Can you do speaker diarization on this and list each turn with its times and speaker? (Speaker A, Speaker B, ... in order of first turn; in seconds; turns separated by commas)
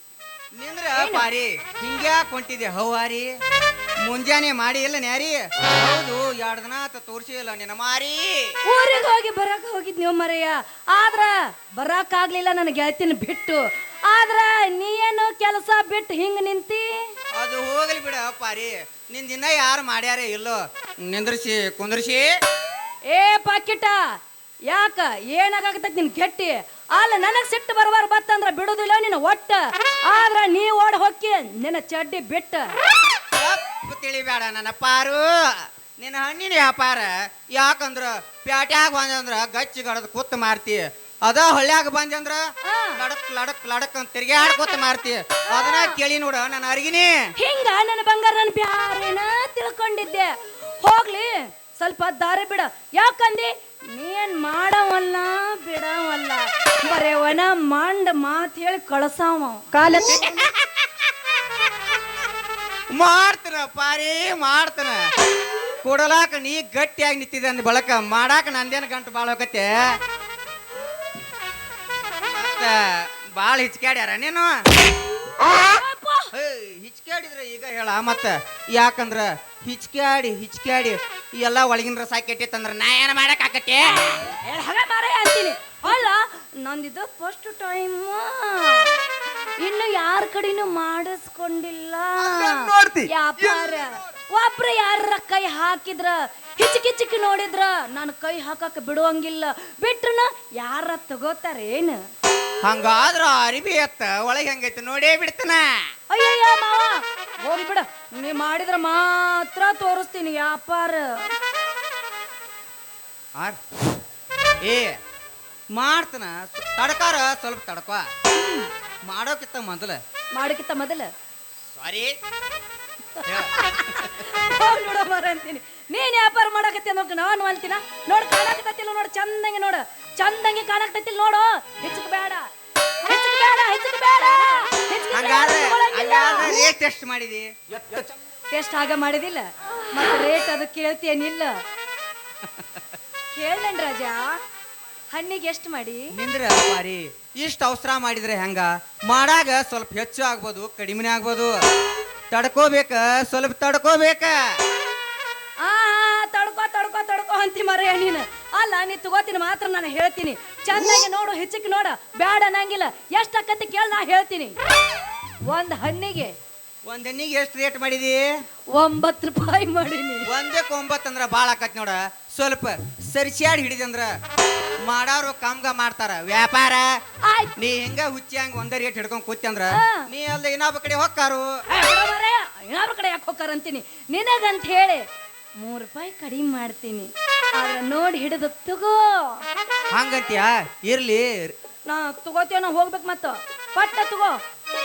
Speaker A: 0.6-3.3, Speaker B: 1.0-1.2, Speaker A: 4.0-8.4, Speaker B: 8.7-17.0, Speaker A: 17.4-22.2, Speaker B: 23.1-23.9, Speaker B: 24.7-32.7, Speaker A: 33.3-35.2, Speaker A: 36.0-42.4, Speaker B: 42.6-43.0, Speaker A: 43.0-47.1, Speaker B: 45.5-45.9, Speaker B: 47.4-59.6, Speaker A: 60.0-60.4, Speaker A: 62.9-65.0, Speaker A: 65.8-69.9, Speaker A: 72.3-72.7, Speaker A: 73.4-74.5, Speaker B: 75.6-76.3, Speaker A: 76.3-84.2, Speaker B: 84.3-88.9, Speaker B: 89.6-102.0, Speaker A: 92.3-93.1, Speaker A: 102.6-105.6, Speaker B: 106.1-111.3, Speaker A: 114.6-114.9, Speaker A: 115.7-118.0, Speaker B: 118.3-118.7, Speaker A: 119.1-120.0, Speaker B: 120.3-121.1, Speaker A: 121.8-122.1, Speaker B: 123.2-132.4, Speaker A: 123.3-124.0, Speaker B: 133.0-136.5, Speaker A: 135.1-137.5, Speaker B: 138.5-141.6, Speaker B: 143.3-144.3, Speaker B: 145.1-146.0, Speaker A: 146.1-151.5, Speaker A: 152.3-154.3, Speaker B: 155.6-164.6, Speaker B: 165.5-166.3, Speaker A: 166.9-168.2, Speaker B: 168.7-170.3, Speaker A: 170.3-174.1, Speaker A: 174.9-176.9, Speaker B: 177.2-177.5, Speaker A: 177.6-181.5, Speaker B: 179.8-180.0, Speaker B: 181.7-185.0, Speaker B: 185.6-189.4, Speaker A: 189.9-191.5, Speaker B: 191.9-194.4